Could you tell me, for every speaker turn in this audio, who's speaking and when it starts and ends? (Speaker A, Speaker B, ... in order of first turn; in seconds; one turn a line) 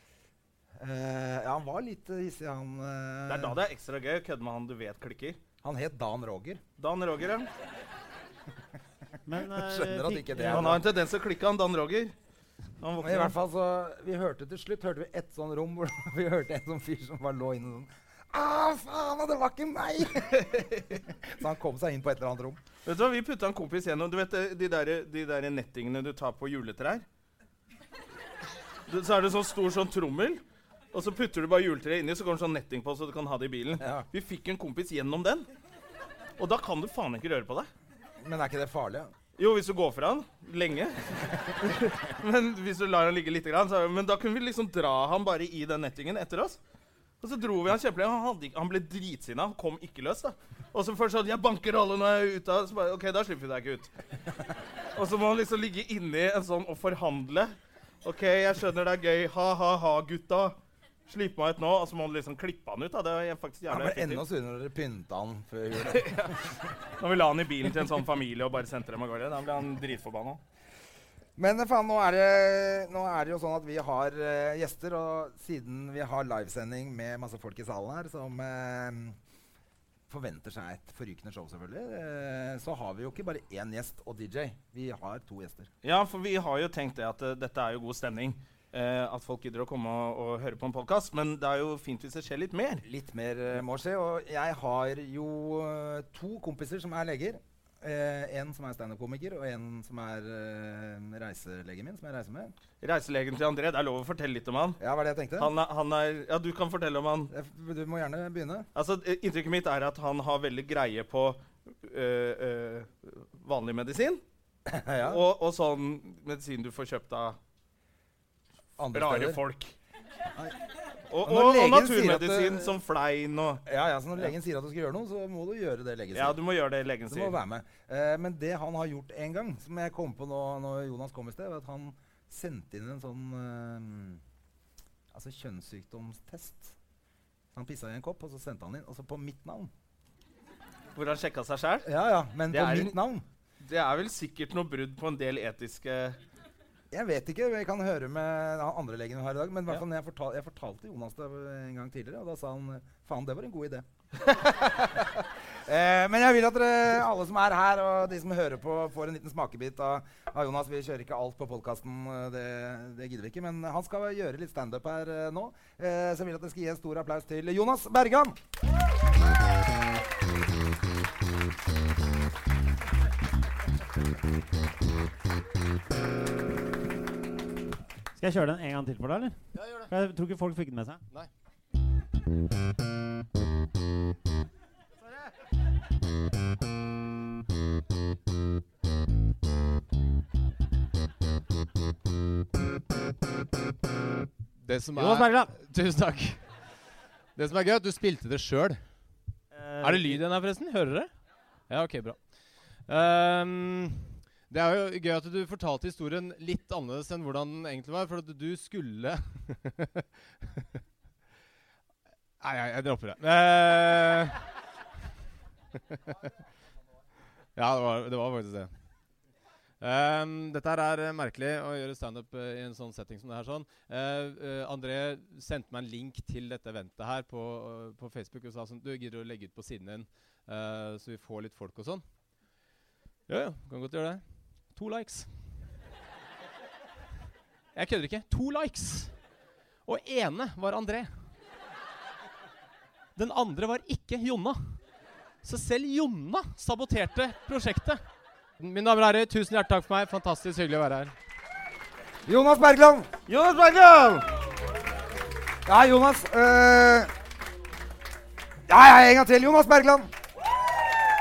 Speaker A: 0.8-3.6
Speaker B: 3.3-5.4
Speaker A: 5.6-6.6
Speaker B: 6.8-7.5
Speaker C: 9.2-10.8
Speaker A: 9.4-10.8
Speaker B: 10.5-12.1
Speaker B: 12.8-13.3
Speaker A: 13.0-22.6
Speaker B: 22.8-27.0
Speaker B: 28.9-30.4
Speaker B: 30.9-35.5
Speaker A: 33.8-34.0
Speaker B: 36.4-37.7
Speaker A: 38.2-39.1
Speaker B: 39.4-46.6
Speaker B: 47.2-53.9
Speaker B: 54.9-57.5
Speaker B: 58.0-60.5
Speaker B: 61.1-64.2
Speaker A: 63.7-66.3
Speaker B: 65.9-66.4
Speaker B: 67.0-70.4
Speaker A: 71.4-79.2
Speaker A: 80.1-85.7
Speaker B: 85.8-92.8
Speaker A: 92.8-102.5
Speaker B: 102.8-104.8
Speaker A: 104.8-105.5
Speaker B: 105.4-107.3
Speaker A: 107.3-108.7
Speaker B: 108.7-114.2
Speaker A: 114.7-115.2
Speaker B: 115.0-117.4
Speaker A: 118.8-119.4
Speaker B: 118.9-119.7
Speaker B: 121.1-123.6
Speaker A: 121.2-122.8
Speaker A: 123.7-126.4
Speaker B: 126.1-127.4
Speaker A: 127.1-134.2
Speaker A: 135.1-136.8
Speaker A: 137.5-139.7
Speaker B: 140.9-141.9
Speaker A: 141.8-143.2
Speaker B: 142.5-142.9
Speaker B: 143.6-146.2
Speaker A: 146.9-168.4
Speaker C: 178.2-181.0
Speaker D: 194.6-196.4
Speaker C: 194.9-195.5
Speaker D: 197.3-198.8
Speaker C: 199.5-200.2
Speaker D: 199.8-201.1
Speaker D: 201.7-202.2
Speaker D: 202.9-210.8
Speaker D: 212.4-214.4
Speaker D: 217.6-218.7
Speaker D: 219.8-232.0
Speaker D: 233.3-235.5
Speaker D: 237.7-239.1
Speaker D: 239.8-241.2
Speaker D: 243.2-244.8
Speaker D: 245.4-248.0
Speaker D: 248.6-251.1
Speaker A: 252.2-253.1
Speaker B: 253.3-254.3
Speaker A: 255.7-257.1
Speaker A: 258.7-260.1